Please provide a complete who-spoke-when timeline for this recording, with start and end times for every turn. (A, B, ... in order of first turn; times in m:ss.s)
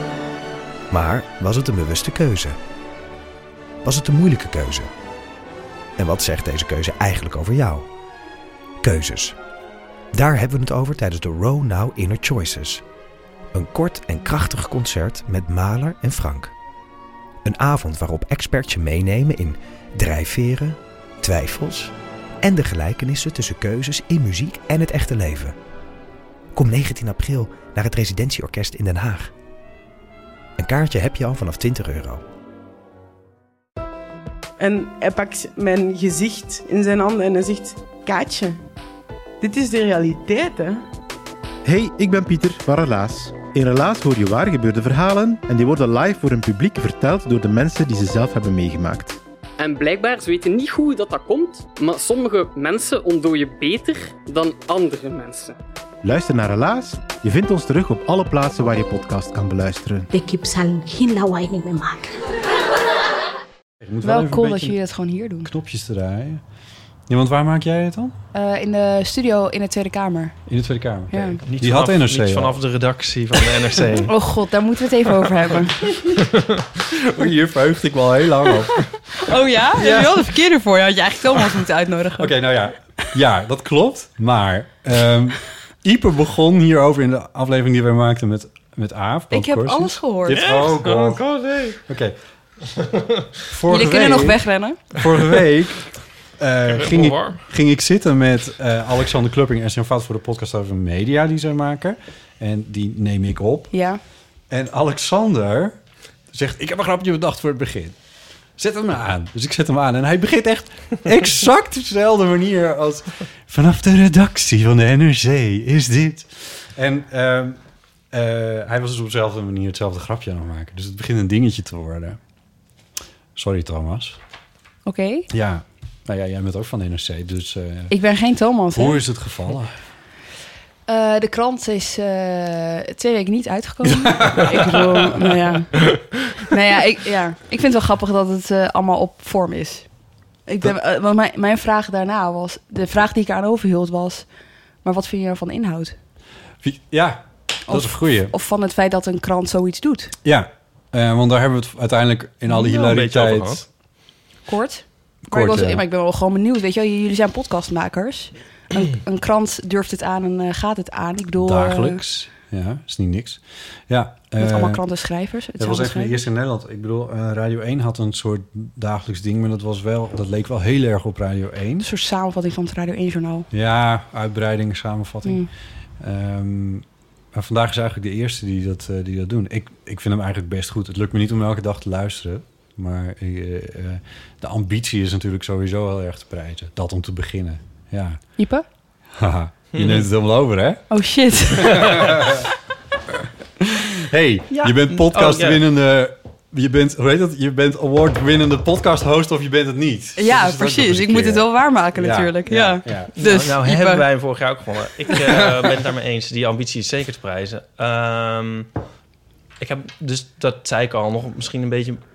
0:00.9-0:02.6 A
0:03.8-0:04.9 A
0:06.0-0:07.9 A
0:08.8-0:09.4 A
0:10.1-0:12.8 A
0:13.5-0:16.5 A
0:17.4-0:25.6 A
0:26.6-0:29.3 A
0:30.6-0:32.2 A
0:34.6-0:38.6 B
0:39.4-0:40.8 B
0:41.6-0:49.2 C
0:49.6-0:55.6 D
0:56.0-1:00.1 C
1:00.1-1:02.1 E
1:03.8-1:04.8 F
1:04.0-1:05.5 G
1:05.4-1:06.4 F
1:07.1-1:08.2 F
1:08.3-1:10.4 G
1:10.5-1:12.6 F
1:11.1-1:11.4 G
1:11.5-1:14.1 H
1:14.0-1:15.8 G
1:16.2-1:16.6 H
1:17.0-1:18.8 F
1:19.1-1:22.4 G
1:19.8-1:20.3 F
1:22.2-1:32.2 F
1:29.3-1:30.4 G
1:30.3-1:31.8 H
1:33.5-1:43.7 F
1:33.7-1:34.8 G
1:36.7-1:37.4 H
1:43.7-1:44.0 G
1:44.5-1:45.8 F
1:46.3-1:48.0 F
1:48.6-1:57.6 F
1:58.1-2:02.2 F
2:03.4-2:04.2 F
2:04.9-2:05.3 G
2:05.3-2:08.0 F
2:07.9-2:09.0 G
2:08.7-2:09.7 F
2:10.9-2:19.9 G
2:13.8-2:14.8 F
2:20.5-2:24.3 G
2:24.8-2:26.0 G
2:26.6-2:28.3 F
2:27.7-2:30.2 G
2:30.2-2:33.6 F
2:32.5-2:33.7 H
2:34.5-2:42.0 G
2:35.3-2:35.8 F
2:41.4-2:44.8 F
2:44.4-2:46.2 G
2:45.6-2:51.9 F
2:51.8-2:53.5 G
2:53.5-2:55.4 F
2:55.2-2:55.5 G
2:56.0-3:08.2 F
3:08.4-3:08.6 G
3:09.2-3:10.9 F
3:09.8-3:10.1 H
3:10.9-3:11.9 G
3:11.6-3:12.5 F
3:11.7-3:12.2 H
3:13.9-3:23.1 F
3:14.5-3:15.6 H
3:20.2-3:24.0 G
3:23.2-3:28.7 H
3:29.6-3:32.0 H